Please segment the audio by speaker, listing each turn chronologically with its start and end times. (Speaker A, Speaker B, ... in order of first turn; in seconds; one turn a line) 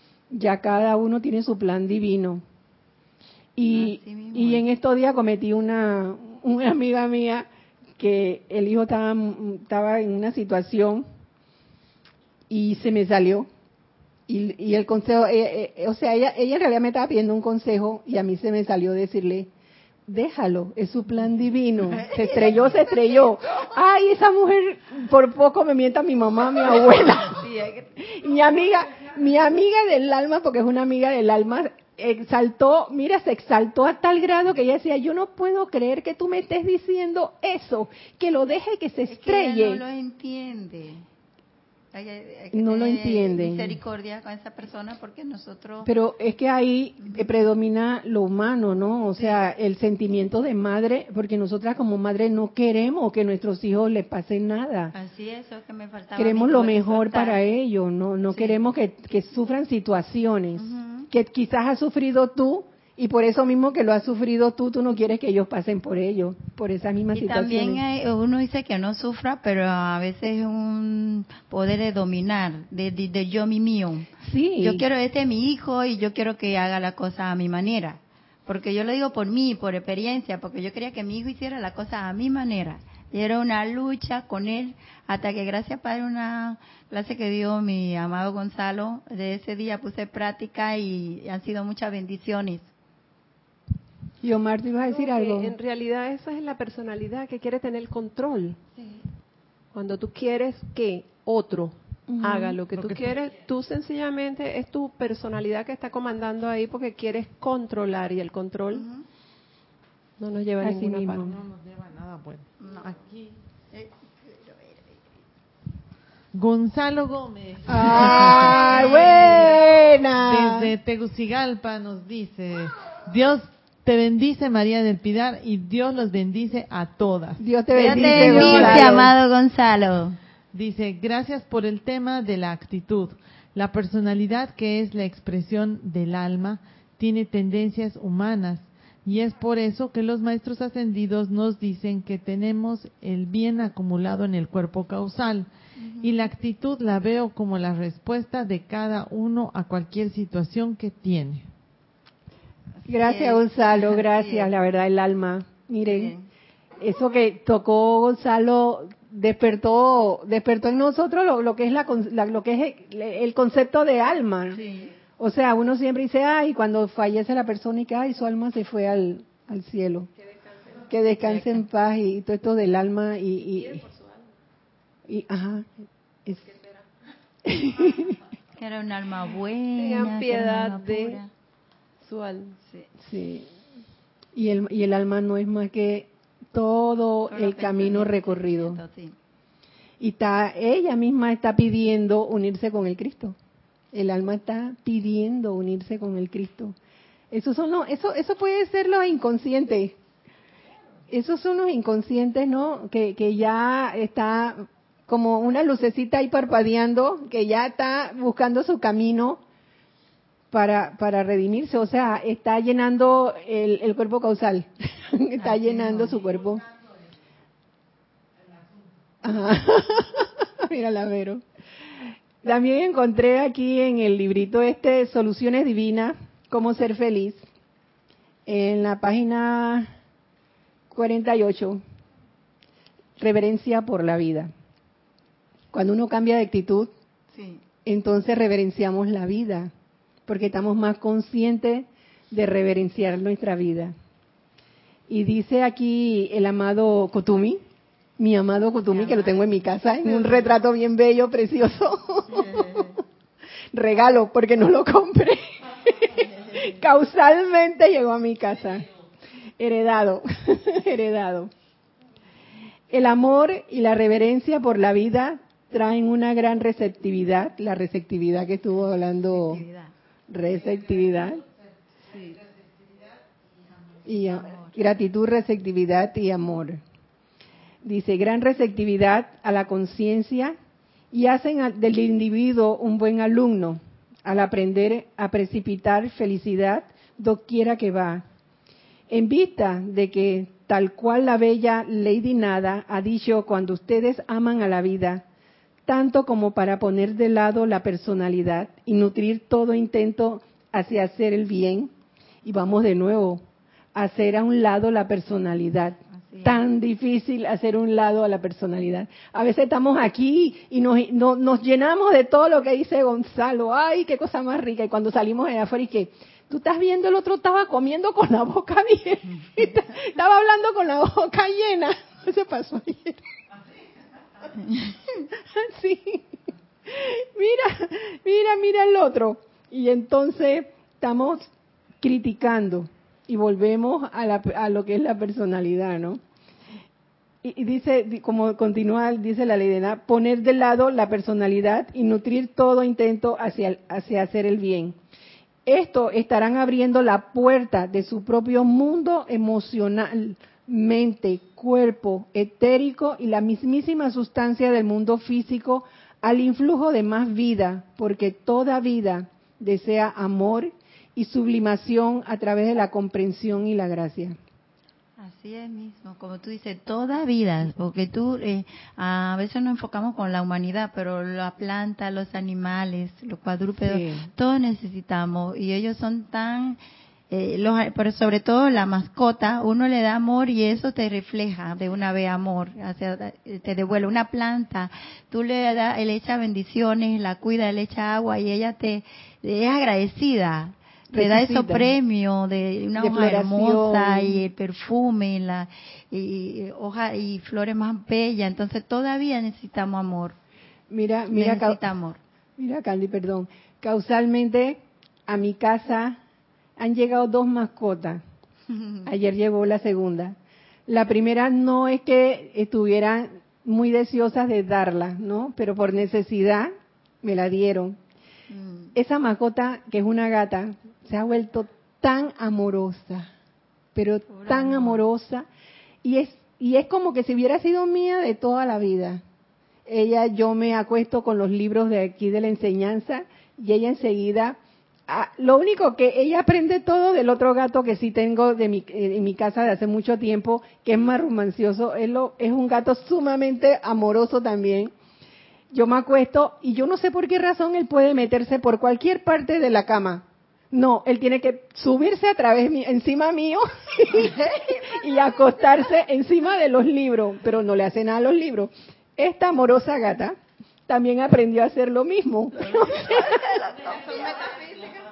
Speaker A: 0.3-2.4
Speaker A: 3.5-7.5
Speaker B: 3.7-4.6
Speaker A: 8.0-11.1
Speaker A: 12.5-13.5
Speaker A: 14.3-19.5
Speaker A: 20.1-27.4
Speaker B: 21.9-23.4
Speaker B: 27.3-27.9
Speaker A: 28.0-39.8
Speaker B: 39.1-41.0
Speaker B: 41.9-45.9
Speaker A: 42.5-43.8
Speaker A: 45.8-54.9
Speaker B: 54.9-57.5
Speaker A: 56.1-67.8
Speaker B: 58.3-58.6
Speaker B: 60.6-61.1
Speaker B: 67.1-74.1
Speaker A: 74.2-74.8
Speaker B: 74.6-92.7
Speaker A: 94.2-95.5
Speaker C: 94.9-98.6
Speaker C: 99.7-108.9
Speaker A: 102.1-102.6
Speaker D: 102.7-103.2
Speaker B: 108.7-109.0
Speaker C: 110.2-111.3
Speaker A: 110.6-111.3
Speaker D: 111.1-113.4
Speaker B: 112.6-112.9
Speaker B: 113.7-115.0
Speaker D: 116.3-119.6
Speaker A: 117.7-120.7
Speaker B: 117.9-119.5
Speaker D: 120.2-129.1
Speaker A: 127.4-129.1
Speaker B: 127.7-130.2
Speaker D: 130.5-145.5
Speaker B: 145.8-146.1
Speaker D: 146.0-151.4
Speaker A: 152.9-156.1
Speaker B: 152.9-154.5
Speaker B: 155.8-156.3
Speaker A: 156.8-164.6
Speaker B: 164.5-164.9
Speaker A: 165.2-170.1
Speaker C: 170.3-170.8
Speaker A: 170.9-173.9
Speaker B: 171.2-171.6
Speaker C: 173.6-174.3
Speaker A: 175.1-175.7
Speaker C: 176.4-176.8
Speaker A: 177.4-178.2
Speaker B: 178.6-181.3
Speaker C: 179.7-181.2
Speaker C: 182.0-182.6
Speaker A: 183.0-183.5
Speaker A: 184.3-188.8
Speaker B: 187.3-189.1
Speaker A: 190.0-193.3
Speaker A: 193.9-196.7
Speaker A: 197.3-199.9
Speaker A: 201.1-209.4
Speaker A: 210.5-216.6
Speaker B: 215.4-216.2
Speaker A: 219.2-221.4
Speaker A: 222.4-227.4
Speaker A: 228.5-229.9
Speaker A: 230.9-231.8
Speaker A: 233.2-234.5
Speaker A: 235.7-236.9
Speaker B: 237.3-237.6
Speaker A: 237.8-239.7
Speaker A: 240.3-243.9
Speaker A: 245.1-247.6
Speaker A: 248.2-252.9
Speaker B: 248.9-250.5
Speaker B: 252.3-252.9
Speaker A: 253.7-258.9
Speaker A: 259.6-261.5
Speaker A: 262.9-269.6
Speaker B: 269.3-269.9
Speaker A: 270.3-271.4
Speaker A: 274.0-276.8
Speaker B: 274.3-274.8
Speaker A: 277.8-280.6
Speaker A: 281.1-288.2
Speaker A: 289.1-295.2
Speaker A: 295.9-301.9
Speaker A: 302.4-303.4
Speaker A: 303.9-323.2
Speaker B: 306.3-306.6
Speaker A: 325.5-326.3
Speaker A: 326.9-331.5
Speaker A: 332.0-336.2
Speaker A: 337.4-345.0
Speaker A: 345.6-364.4
Speaker B: 365.2-376.8
Speaker A: 373.8-374.3
Speaker B: 377.3-400.4
Speaker A: 391.1-391.9
Speaker A: 393.0-394.4
Speaker A: 400.9-401.8
Speaker B: 401.3-402.2
Speaker A: 402.6-406.2
Speaker A: 406.8-408.2
Speaker A: 409.0-410.4
Speaker A: 410.9-418.0
Speaker B: 418.5-418.9
Speaker A: 418.9-423.3
Speaker A: 423.9-425.5
Speaker B: 424.3-425.0
Speaker A: 426.0-429.2
Speaker A: 429.9-444.9
Speaker A: 445.7-460.4
Speaker A: 460.9-463.7
Speaker B: 462.6-464.9